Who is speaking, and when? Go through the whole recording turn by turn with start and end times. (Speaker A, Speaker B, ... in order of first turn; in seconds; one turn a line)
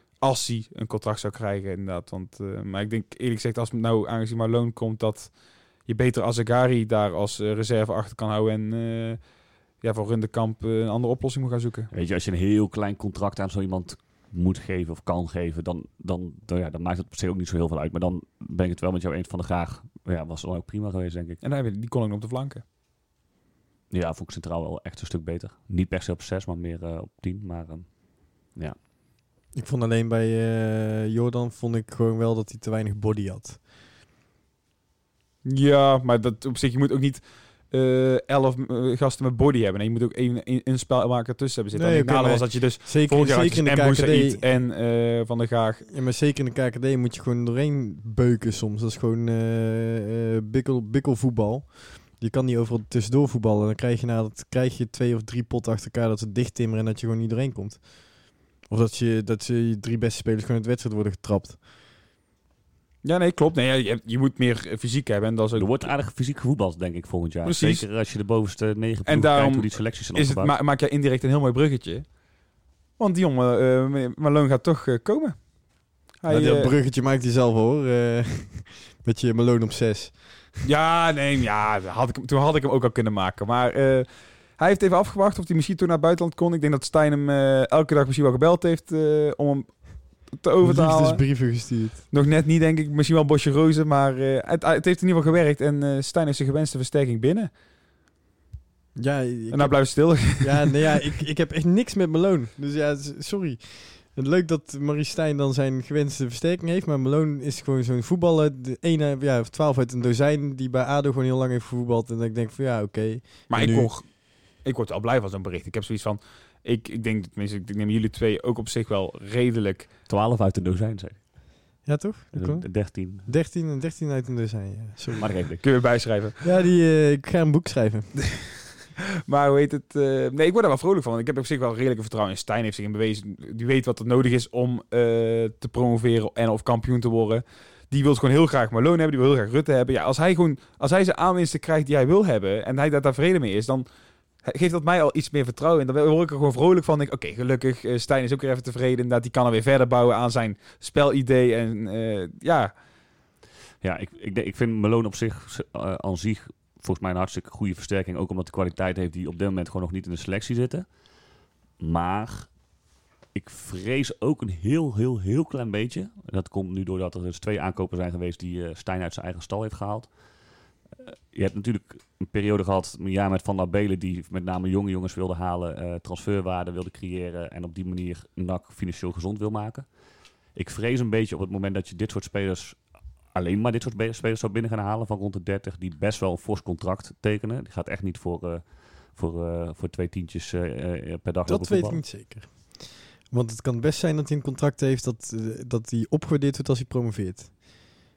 Speaker A: 0.2-11.9
Speaker B: 11.9-21.4
Speaker A: 21.4-22.6
Speaker B: 23.9-28.8
Speaker C: 29.5-33.6
Speaker A: 35.4-45.9
Speaker C: 41.7-44.5
Speaker C: 45.9-61.6
Speaker A: 63.0-65.7
Speaker B: 65.5-70.5
Speaker A: 67.4-67.9
Speaker A: 69.0-72.1
Speaker A: 73.0-76.7
Speaker C: 76.3-80.5
Speaker A: 80.6-97.5
Speaker C: 90.6-92.0
Speaker C: 99.0-113.9
Speaker A: 99.5-100.7
Speaker A: 113.5-119.9
Speaker B: 120.1-121.7
Speaker C: 121.8-125.6
Speaker B: 122.3-123.3
Speaker B: 125.2-125.6
Speaker A: 125.6-126.4
Speaker C: 126.4-128.3
Speaker A: 129.3-143.8
Speaker A: 144.4-152.7
Speaker B: 153.8-160.9
Speaker B: 161.8-162.6
Speaker B: 163.3-170.1
Speaker B: 171.1-179.9
Speaker B: 180.5-192.0
Speaker C: 191.4-198.1